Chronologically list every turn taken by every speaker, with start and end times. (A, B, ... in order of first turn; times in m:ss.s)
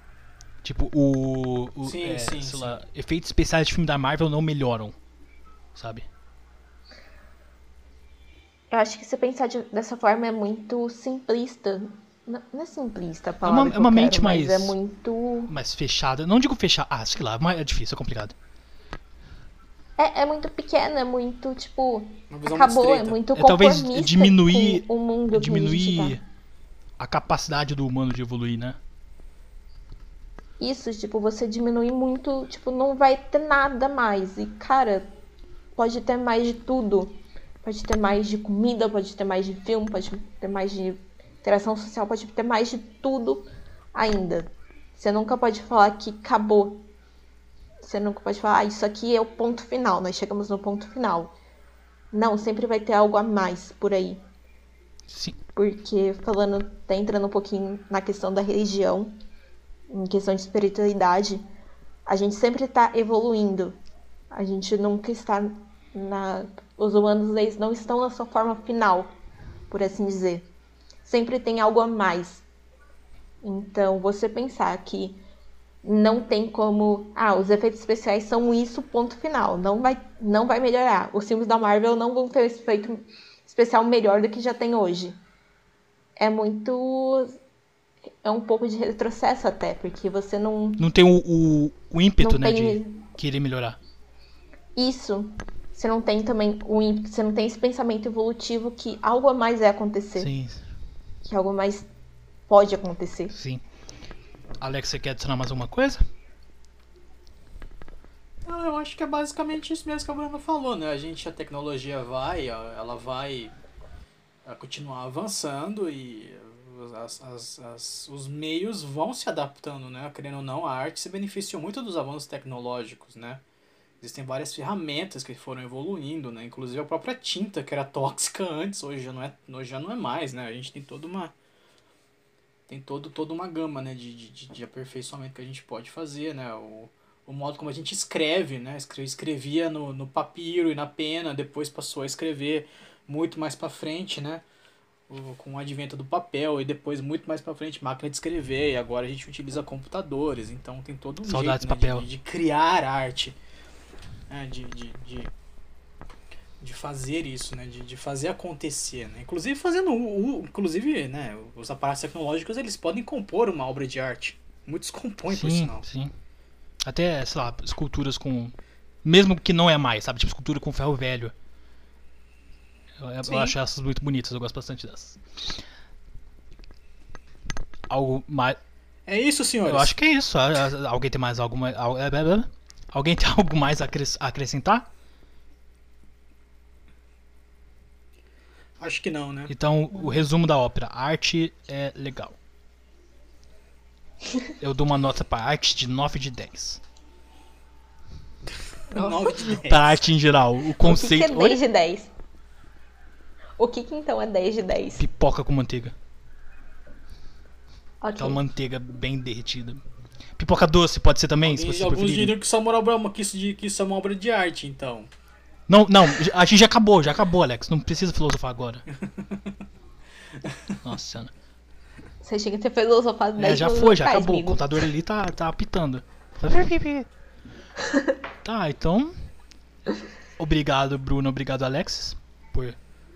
0:00.6-0:05.0 A
0:01.8-0:02.8 B
0:05.7-0:06.0 A
0:08.7-0:15.5 C
0:13.4-0:14.8 A
0:15.5-0:18.3 A
0:20.0-0:26.2 C
0:22.3-0:23.2 B
0:23.4-0:26.2 A
0:27.0-0:28.8 A
0:30.6-0:35.1 C
0:35.8-0:46.9 C
0:47.8-0:51.3 C
0:52.1-0:54.2 C
0:55.1-0:55.4 A
0:55.6-0:59.1 C
0:59.9-1:01.4 C
1:02.1-1:03.8 C
1:04.3-1:09.1 C
1:09.7-1:10.5 C
1:11.0-1:12.4 C
1:13.4-1:15.2 C
1:15.8-1:25.2 C
1:26.2-1:27.4 C
1:28.2-1:30.9 C
1:30.8-1:33.8 A
1:32.2-1:33.0 C
1:34.8-1:40.3 C
1:40.2-1:40.6 A
1:41.2-1:41.9 C
1:42.5-1:43.3 C
1:43.3-1:43.6 A
1:44.6-1:46.0 A
1:48.4-1:53.6 B
1:54.4-2:03.4 B
2:04.0-2:11.3 B
2:12.7-2:24.4 B
2:25.1-2:33.4 B
2:31.2-2:32.0 A
2:34.3-2:35.3 B
2:36.6-2:45.8 B
2:45.3-2:46.1 A
2:46.8-2:51.3 A
2:53.0-2:55.6 A
2:53.3-2:53.5 B
2:57.9-2:58.6 A
2:59.1-2:59.9 B
2:59.6-3:04.9 A
3:08.8-3:09.5 B
3:09.5-3:12.4 A
3:14.6-3:16.8 A
3:18.9-3:20.0 B
3:18.9-3:19.5 C
3:19.4-3:21.6 A
3:20.8-3:22.1 C
3:23.6-3:25.0 C
3:25.0-3:25.9 A
3:28.0-3:28.4 C
3:28.2-3:29.8 A
3:30.4-3:32.4 A
3:31.4-3:35.1 B
3:35.7-3:38.8 A
3:39.0-3:39.4 B
3:40.8-3:41.3 A
3:42.2-3:44.9 C
3:43.4-3:47.1 A
3:48.4-3:49.1 A
3:50.4-3:52.8 A